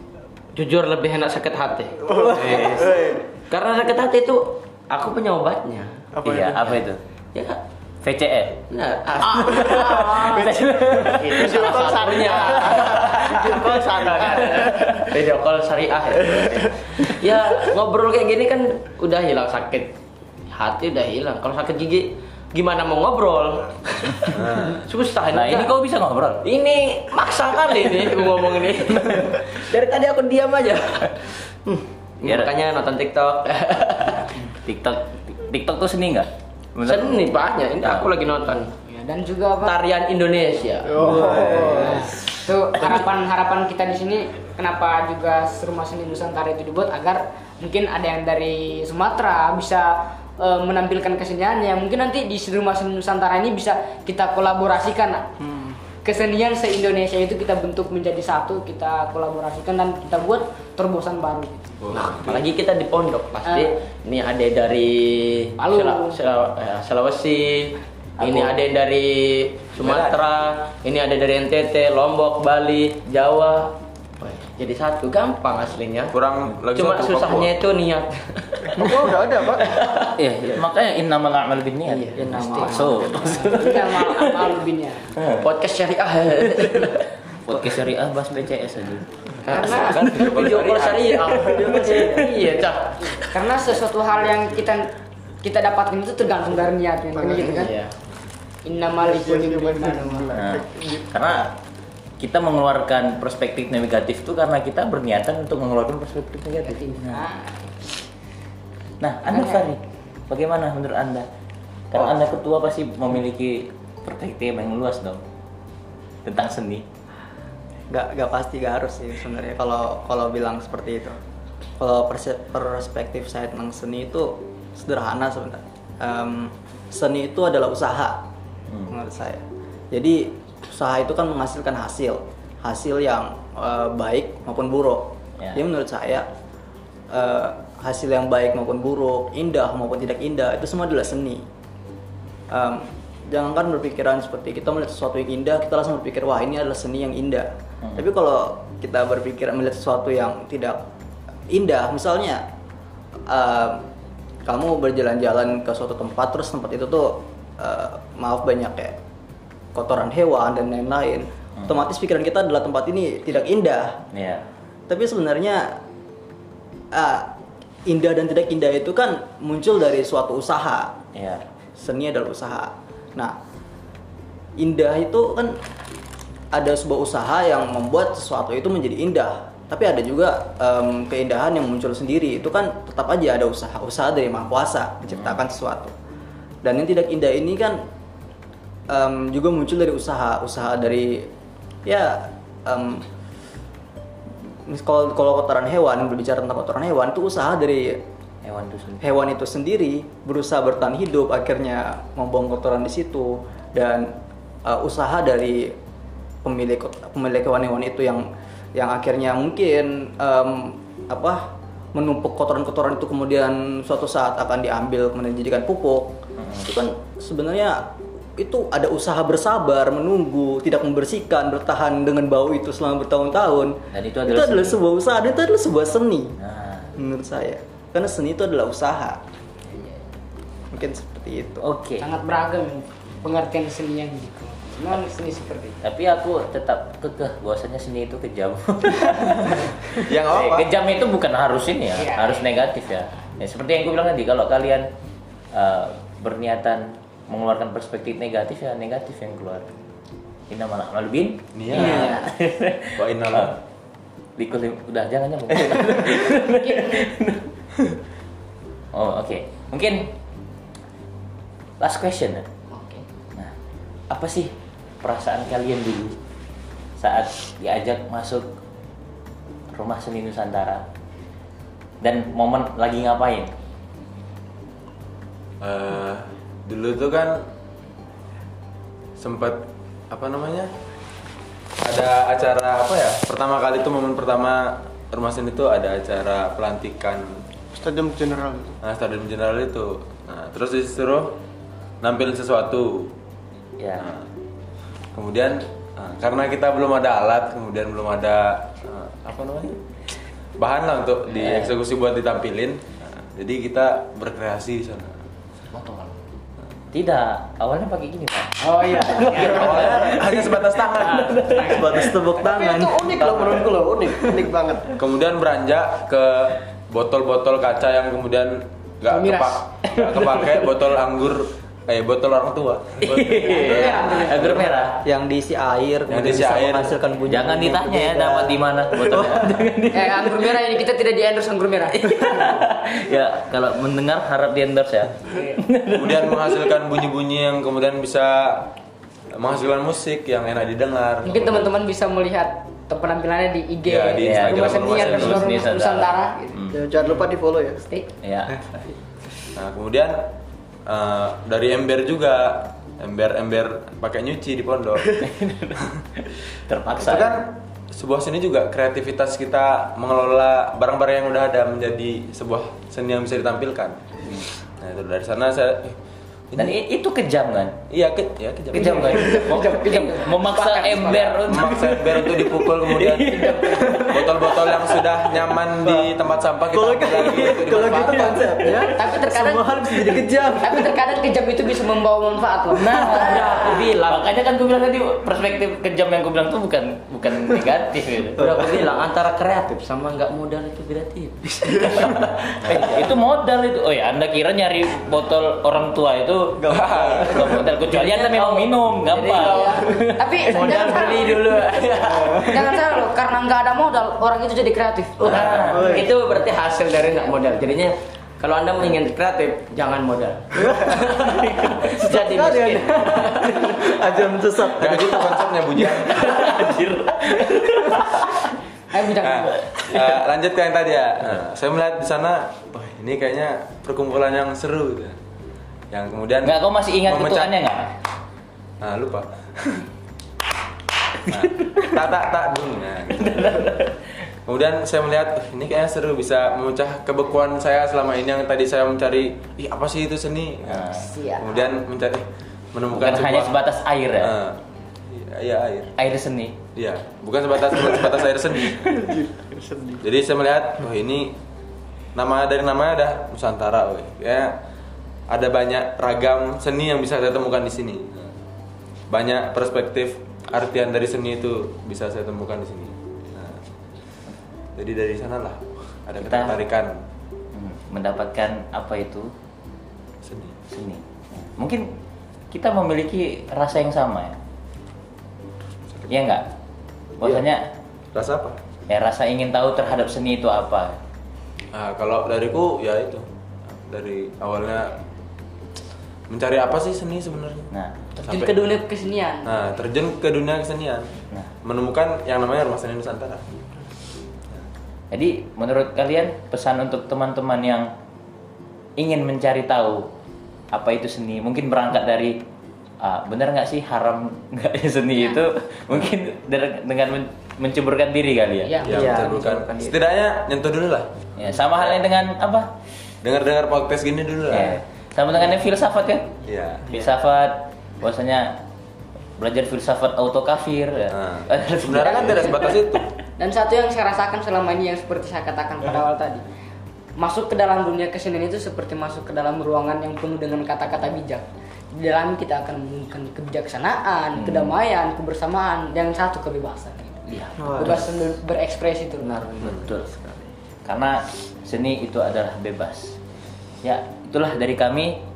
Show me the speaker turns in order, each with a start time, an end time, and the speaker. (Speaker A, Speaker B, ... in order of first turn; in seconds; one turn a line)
Speaker A: 0.5-6.8
Speaker B: 2.1-3.1
Speaker C: 2.4-2.8
Speaker B: 6.2-6.5
Speaker D: 6.2-7.0
Speaker A: 7.3-7.6
Speaker D: 8.0-8.6
Speaker A: 8.7-19.9
Speaker D: 9.2-11.9
Speaker B: 9.7-15.1
Speaker D: 12.7-13.0
Speaker D: 13.5-14.9
Speaker A: 20.5-25.7
Speaker C: 24.3-24.9
Speaker D: 25.3-26.4
Speaker A: 26.4-34.4
Speaker D: 32.2-32.5
Speaker D: 34.5-37.3
Speaker A: 36.9-38.7
Speaker D: 37.8-38.1
Speaker E: 38.8-39.8
Speaker A: 39.6-43.0
Speaker F: 41.0-42.0
Speaker E: 41.0-55.3
Speaker F: 55.4-55.8
Speaker E: 56.0-61.8
Speaker C: 61.8-62.5
Speaker A: 61.9-76.2
Speaker E: 65.6-66.2
Speaker D: 68.2-68.5
Speaker C: 69.8-70.2
Speaker C: 76.1-77.5
Speaker A: 76.7-78.9
Speaker B: 78.8-79.8
Speaker A: 79.7-80.2
Speaker D: 80.2-84.5
Speaker A: 81.9-82.2
Speaker F: 82.2-83.4
Speaker E: 82.3-85.2
Speaker D: 85.2-85.5
Speaker A: 85.3-87.1
Speaker D: 87.3-89.4
Speaker A: 89.5-93.4
Speaker E: 89.5-90.1
Speaker C: 89.9-91.1
Speaker F: 91.3-92.3
Speaker E: 93.2-97.7
Speaker B: 97.2-97.5
Speaker A: 97.5-98.0
Speaker E: 98.7-100.3
Speaker B: 99.0-101.5
Speaker D: 100.3-101.5
Speaker D: 102.2-107.2
Speaker E: 106.6-107.9
Speaker D: 109.0-111.3
Speaker E: 109.3-109.7
Speaker D: 111.9-115.2
Speaker D: 116.2-116.8
Speaker F: 117.9-121.2
Speaker F: 121.8-128.2
Speaker D: 128.7-129.0
Speaker F: 128.9-136.3
Speaker F: 137.1-141.5
Speaker F: 142.5-150.8
Speaker F: 151.5-152.5
Speaker F: 153.3-153.9
Speaker F: 154.4-159.0
Speaker F: 159.7-164.1
Speaker D: 164.1-164.5
Speaker F: 164.9-165.8
Speaker F: 166.9-167.3
Speaker F: 167.9-171.0
Speaker D: 171.1-171.4
Speaker F: 171.8-173.4
Speaker F: 174.6-175.6
Speaker F: 176.5-185.9
Speaker F: 186.6-187.8
Speaker F: 188.9-191.3
Speaker F: 191.8-193.1
Speaker F: 194.7-198.0
Speaker D: 198.4-199.1
Speaker F: 199.0-205.8
Speaker F: 206.4-226.4
Speaker D: 216.4-216.7
Speaker D: 223.9-224.8
Speaker D: 226.4-226.9
Speaker F: 227.0-229.2
Speaker F: 230.7-231.7
Speaker D: 231.6-232.1
Speaker E: 232.0-235.8
Speaker D: 235.8-244.9
Speaker C: 239.4-240.7
Speaker E: 242.0-242.5
Speaker D: 245.5-249.7
Speaker D: 250.5-253.6
Speaker C: 251.5-252.3
Speaker E: 251.7-252.2
Speaker C: 253.0-253.6
Speaker D: 254.4-257.5
Speaker E: 256.3-257.1
Speaker D: 258.9-260.1
Speaker D: 261.8-262.5
Speaker E: 262.7-263.0
Speaker D: 264.1-266.2
Speaker D: 267.0-268.5
Speaker D: 269.7-270.8
Speaker D: 272.0-273.5
Speaker C: 275.6-277.5
Speaker C: 279.2-280.7
Speaker C: 281.8-287.4
Speaker B: 287.7-288.8
Speaker C: 288.8-291.4
Speaker C: 292.0-293.1
Speaker D: 293.8-294.1
Speaker C: 294.0-294.3
Speaker C: 295.1-299.8
Speaker C: 300.6-305.2
Speaker D: 301.4-301.8
Speaker D: 306.9-312.2
Speaker E: 308.6-310.2
Speaker C: 309.3-311.5
Speaker E: 311.2-311.8
Speaker F: 311.5-313.3
Speaker B: 312.4-315.0
Speaker C: 315.0-324.3
Speaker E: 319.1-320.2
Speaker D: 323.0-325.0
Speaker E: 323.4-324.9
Speaker F: 325.0-329.7
Speaker C: 326.1-326.9
Speaker D: 327.3-330.7
Speaker E: 329.9-332.0
Speaker D: 332.0-336.7
Speaker E: 335.3-335.6
Speaker C: 335.9-338.7
Speaker C: 339.3-341.7
Speaker E: 341.2-346.6
Speaker C: 343.9-345.5
Speaker D: 344.2-346.8
Speaker B: 346.7-347.8
Speaker D: 348.2-348.6
Speaker C: 349.6-350.3
Speaker C: 350.9-355.3
Speaker D: 355.2-357.4
Speaker C: 356.9-366.0
Speaker C: 366.5-366.8
Speaker D: 366.6-367.8
Speaker C: 367.9-369.2
Speaker D: 368.7-374.9
Speaker E: 368.7-371.4
Speaker C: 371.4-378.5
Speaker E: 373.4-373.9
Speaker F: 375.8-376.1
Speaker F: 376.7-380.9
Speaker E: 378.9-379.8
Speaker E: 380.6-383.8
Speaker A: 382.8-384.3
Speaker D: 384.1-388.5
Speaker F: 388.4-388.7
Speaker A: 388.4-393.1
Speaker F: 391.7-392.1
Speaker D: 391.8-400.0
Speaker F: 396.6-397.5
Speaker A: 397.8-402.9
Speaker E: 399.4-401.4
Speaker F: 402.2-402.6
Speaker E: 402.3-405.5
Speaker D: 405.2-405.9
Speaker A: 405.2-413.9
Speaker F: 405.5-406.1
Speaker F: 410.6-411.4
Speaker F: 412.3-415.8
Speaker C: 414.8-416.7
Speaker D: 416.0-418.5
Speaker E: 418.9-419.6
Speaker C: 419.2-425.2
Speaker D: 419.9-420.2
Speaker C: 425.9-427.5
Speaker D: 426.4-427.9
Speaker C: 428.8-429.9
Speaker C: 431.3-433.8
Speaker D: 433.2-434.0
Speaker C: 434.5-443.6
Speaker D: 440.7-441.0
Speaker E: 440.9-441.7
Speaker D: 442.9-444.4
Speaker C: 444.2-445.9
Speaker D: 446.0-446.6
Speaker C: 446.8-449.1
Speaker B: 449.1-450.0
Speaker C: 450.0-451.4
Speaker C: 452.1-454.6
Speaker C: 455.3-458.3
Speaker C: 459.1-463.6
Speaker C: 464.8-467.0
Speaker D: 466.2-466.6
Speaker D: 467.5-469.3
Speaker C: 470.2-470.6
Speaker D: 470.7-471.9
Speaker D: 472.5-474.4
Speaker D: 476.1-476.5
Speaker D: 477.2-477.7
Speaker C: 478.1-478.6
Speaker D: 478.9-481.0
Speaker C: 481.7-485.0
Speaker C: 486.3-487.7
Speaker E: 488.2-489.8
Speaker C: 488.2-488.7
Speaker C: 489.4-491.1
Speaker C: 491.6-493.5
Speaker D: 495.1-497.9
Speaker D: 499.0-500.1
Speaker D: 500.7-502.4
Speaker D: 503.0-508.9
Speaker E: 508.6-509.1
Speaker C: 508.8-511.1
Speaker F: 508.9-510.0
Speaker D: 511.4-512.7
Speaker C: 513.2-514.8
Speaker D: 514.5-518.6
Speaker C: 516.5-517.1
Speaker D: 519.4-522.6
Speaker C: 521.1-523.1
Speaker E: 522.0-522.8
Speaker E: 523.4-526.5
Speaker E: 527.2-539.5
Speaker D: 534.4-534.7
Speaker D: 537.3-538.0
Speaker F: 537.6-538.0
Speaker F: 539.3-540.4
Speaker D: 540.9-543.2
Speaker D: 543.8-545.2